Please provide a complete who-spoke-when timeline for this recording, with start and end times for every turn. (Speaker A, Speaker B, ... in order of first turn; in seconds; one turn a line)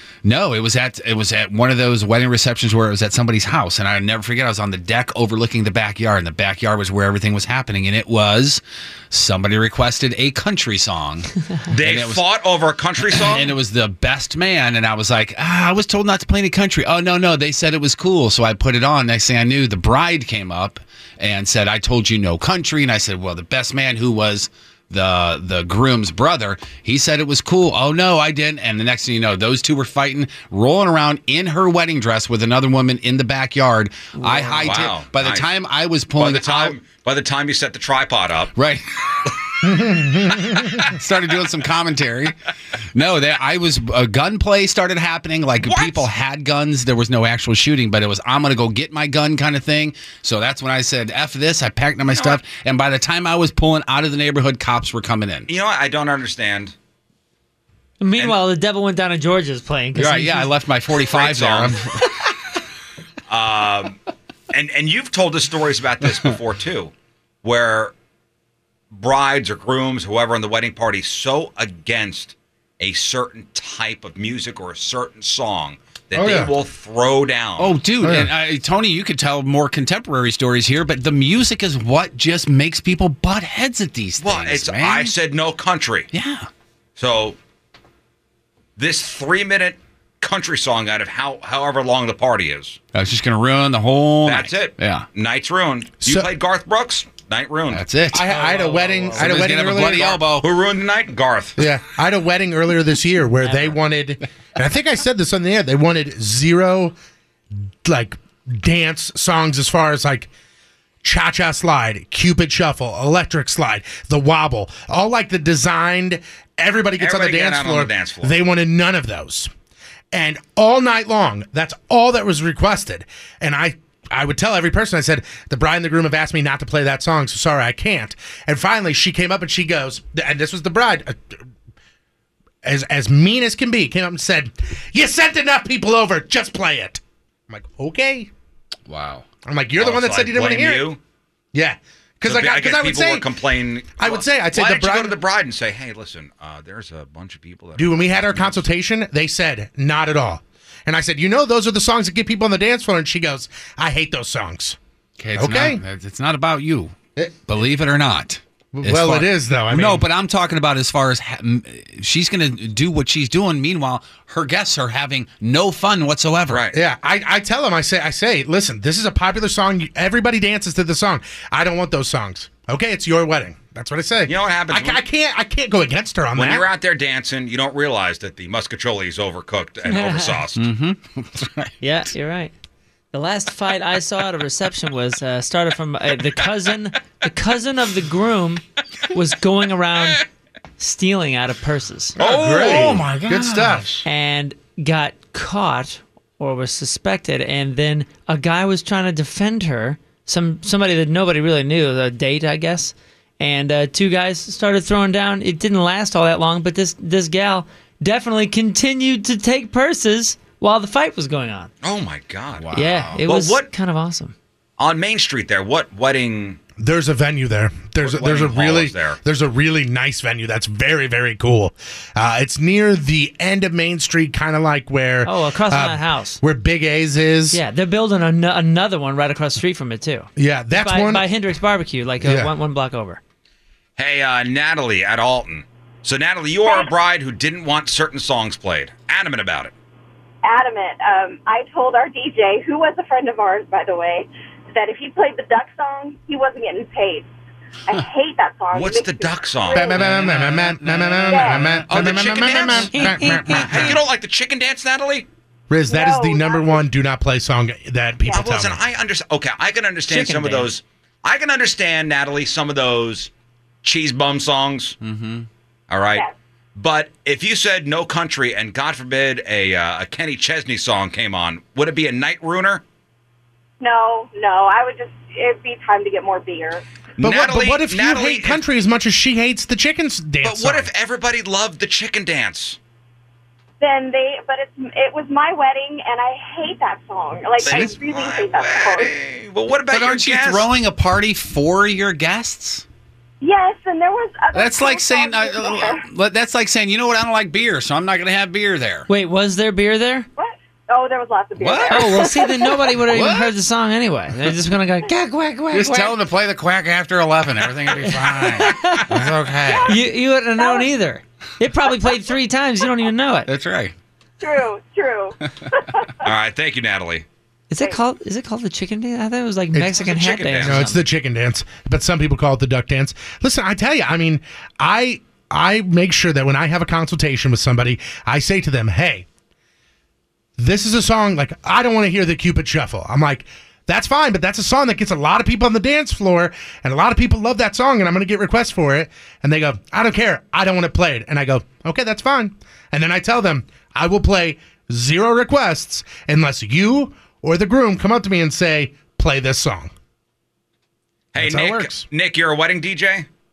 Speaker A: 0.2-12.2
Speaker B: 11.7-13.5
Speaker A: 13.0-36.8
Speaker C: 34.1-34.7
Speaker B: 34.5-35.5
Speaker B: 36.2-38.5
Speaker A: 38.6-39.3
Speaker D: 39.6-40.7
Speaker A: 40.8-42.3
Speaker A: 42.9-55.5
Speaker B: 45.6-46.1
Speaker B: 52.1-52.4
Speaker B: 55.5-56.7
Speaker C: 58.0-60.5
Speaker A: 60.0-62.0
Speaker B: 61.1-61.8
Speaker B: 63.3-64.0
Speaker B: 64.5-66.9
Speaker B: 67.4-67.9
Speaker B: 68.9-77.7
Speaker D: 76.1-76.5
Speaker A: 77.6-85.1
Speaker D: 78.0-78.3
Speaker B: 84.2-86.1
Speaker A: 86.1-86.5
Speaker B: 87.0-87.3
Speaker B: 88.8-92.8
Speaker A: 92.9-95.0
Speaker B: 94.2-97.8
Speaker A: 97.7-98.3
Speaker D: 98.1-100.2
Speaker C: 98.2-99.3
Speaker A: 99.1-100.5
Speaker B: 100.4-101.6
Speaker D: 101.6-106.9
Speaker C: 103.4-103.8
Speaker D: 107.8-110.3
Speaker D: 111.0-119.5
Speaker B: 117.0-118.3
Speaker D: 120.1-131.4
Speaker D: 132.6-138.3
Speaker A: 138.9-139.2
Speaker D: 139.4-140.9
Speaker B: 139.8-141.0
Speaker D: 141.5-143.3
Speaker B: 142.2-148.6
Speaker D: 144.0-145.2
Speaker D: 147.8-154.8
Speaker A: 155.2-156.9
Speaker D: 155.3-155.8
Speaker A: 157.5-166.7
Speaker D: 158.7-160.0
Speaker B: 166.5-166.8
Speaker D: 166.7-176.7
Speaker B: 174.3-175.0
Speaker B: 176.3-180.6
Speaker C: 179.8-180.3
Speaker A: 180.6-181.7
Speaker C: 181.8-182.5
Speaker C: 183.1-190.2
Speaker C: 190.8-192.2
Speaker A: 192.2-193.8
Speaker D: 192.2-194.0
Speaker C: 194.0-211.7
Speaker B: 211.8-212.7
Speaker A: 212.5-213.2
Speaker C: 212.7-214.3
Speaker B: 213.2-213.7
Speaker B: 214.8-216.6
Speaker D: 216.8-227.6
Speaker B: 218.0-219.2
Speaker C: 225.2-226.4
Speaker C: 227.5-233.2
Speaker D: 230.3-231.2
Speaker D: 232.2-232.5
Speaker B: 234.0-239.7
Speaker E: 236.6-236.9
Speaker E: 240.4-247.3
Speaker E: 247.9-250.1
Speaker B: 248.7-249.9
Speaker D: 249.7-253.9
Speaker A: 249.9-253.9
Speaker E: 251.3-251.7
Speaker B: 251.9-255.2
Speaker C: 252.9-253.8
Speaker D: 255.7-258.8
Speaker E: 255.9-256.8
Speaker B: 258.3-263.3
Speaker C: 260.1-260.7
Speaker B: 263.8-265.0
Speaker A: 265.0-265.5
Speaker B: 265.9-266.2
Speaker B: 266.8-272.8
Speaker E: 273.8-276.8
Speaker B: 277.2-278.6
Speaker D: 277.2-280.9
Speaker B: 280.4-282.8
Speaker E: 283.8-289.1
Speaker B: 287.6-290.7
Speaker A: 287.6-288.0
Speaker A: 289.9-292.8
Speaker E: 293.4-296.1
Speaker A: 294.5-299.1
Speaker C: 299.1-300.2
Speaker E: 300.4-302.3
Speaker A: 301.6-303.5
Speaker C: 301.9-306.2
Speaker A: 305.7-310.0
Speaker C: 308.0-309.1
Speaker E: 309.6-310.0
Speaker C: 309.8-313.5
Speaker E: 310.6-310.9
Speaker A: 313.5-313.9
Speaker E: 314.4-315.3
Speaker B: 316.2-317.2
Speaker C: 317.7-321.0
Speaker B: 320.0-320.8
Speaker D: 320.6-329.2
Speaker D: 330.6-349.9
Speaker B: 351.3-353.2
Speaker D: 351.4-352.1